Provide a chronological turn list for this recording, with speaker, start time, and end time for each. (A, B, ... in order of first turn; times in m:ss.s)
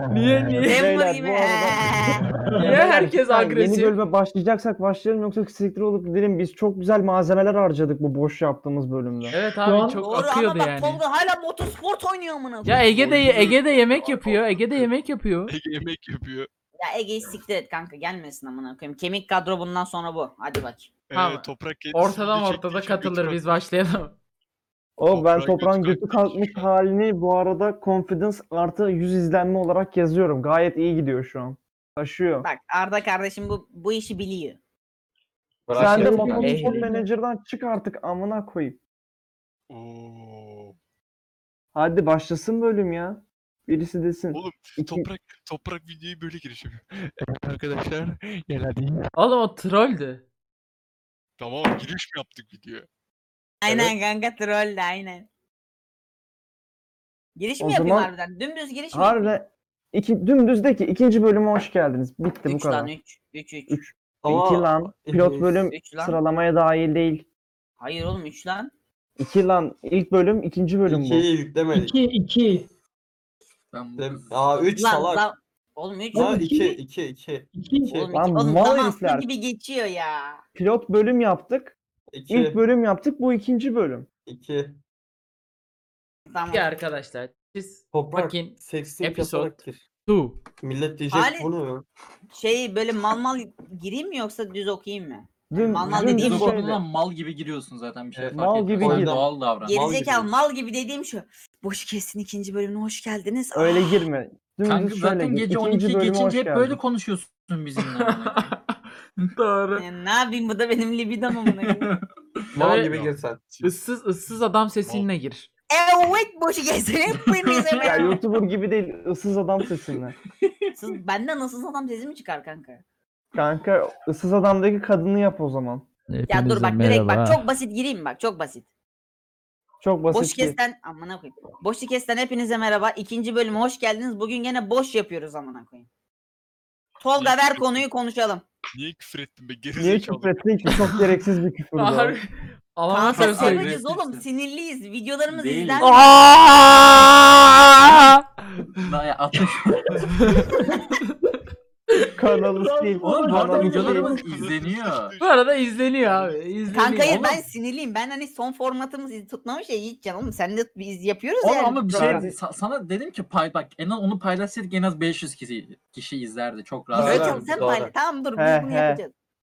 0:00.1-0:00.8 A
0:00.6-0:09.4 B
0:00.6-0:02.3 C
0:02.4-0:02.8 D
0:02.6-0:04.0 A
0:09.3-0:11.0 A
0:09.6-0:10.0 D
0:10.0-0:13.2 C
0:12.7-0:15.5 A
0:12.9-0:14.9 E
0:15.5-0:16.5 E
0:16.8-0:20.9 C
0:21.1-0:23.6 E
0:21.1-0:24.2 A
0:25.0-0:32.5 B
0:25.1-0:26.7 E
0:32.4-0:34.6 C
0:35.7-0:36.6 F
0:35.8-0:38.8 B
0:35.8-0:37.1 D
0:36.4-0:36.9 A
0:39.7-0:40.8 E
0:41.8-0:45.1 B
0:44.3-0:49.0 E
0:49.2-0:50.2 A
0:51.4-0:52.9 E
0:53.6-0:55.3 C
0:57.4-0:59.4 C
0:57.6-0:58.1 B
0:58.9-1:02.9 B
1:02.5-1:03.8 C
1:03.7-1:07.3 B
1:04.2-1:05.6 F
1:05.7-1:06.2 C
1:07.8-1:08.7 C
1:09.2-1:11.3 B
1:10.9-1:12.0 F
1:11.7-1:12.7 D
1:13.7-1:14.7 G
1:14.0-1:15.3 F
1:14.8-1:16.4 C
1:16.1-1:16.8 D
1:16.1-1:18.1 F
1:17.5-1:18.0 D
1:17.9-1:20.4 C
1:18.1-1:19.3 B
1:20.6-1:21.8 B
1:22.1-1:22.6 F
1:22.3-1:24.1 B
1:24.3-1:24.8 F
1:26.3-1:26.7 C
1:26.5-1:30.4 A
1:27.9-1:29.8 F
1:30.6-1:31.8 F
1:31.1-1:31.5 C
1:32.3-1:36.6 C
1:35.5-1:36.8 B
1:35.8-1:40.0 G
1:38.2-1:40.3 F
1:38.3-1:39.2 B
1:39.7-1:44.0 C
1:43.6-1:46.8 B
1:44.6-1:48.5 G
1:48.0-1:48.8 A
1:49.4-1:49.8 A
1:49.8-1:51.9 C
1:51.5-1:52.4 G
1:52.5-1:53.4 F
1:52.6-1:52.9 A
1:52.7-1:53.8 E
1:53.6-1:55.5 A
1:55.7-1:58.2 C
1:57.2-1:58.2 G
1:57.8-2:00.2 B
2:00.4-2:00.8 G
2:00.8-2:02.8 C
2:03.3-2:05.9 B
2:06.1-2:07.4 A
2:06.3-2:08.7 C
2:09.8-2:10.6 B
2:10.1-2:15.9 C
2:17.0-2:18.4 C
2:17.2-2:17.9 E
2:18.7-2:20.4 E
2:19.8-2:22.2 B
2:21.8-2:23.8 A
2:22.9-2:26.2 C
2:23.1-2:24.2 G
2:25.3-2:25.9 G
2:25.8-2:28.8 A
2:28.8-2:30.8 G
2:30.1-2:31.2 A
2:30.5-2:30.8 D
2:32.2-2:34.2 B
2:32.5-2:34.2 D
2:33.0-2:35.1 G
2:34.1-2:36.4 E
2:35.2-2:37.2 A
2:36.7-2:42.3 C
2:37.0-2:37.4 G
2:41.4-2:47.7 G
2:41.9-2:42.4 B
2:46.9-2:47.9 F
2:47.0-2:49.1 C
2:48.4-2:49.0 B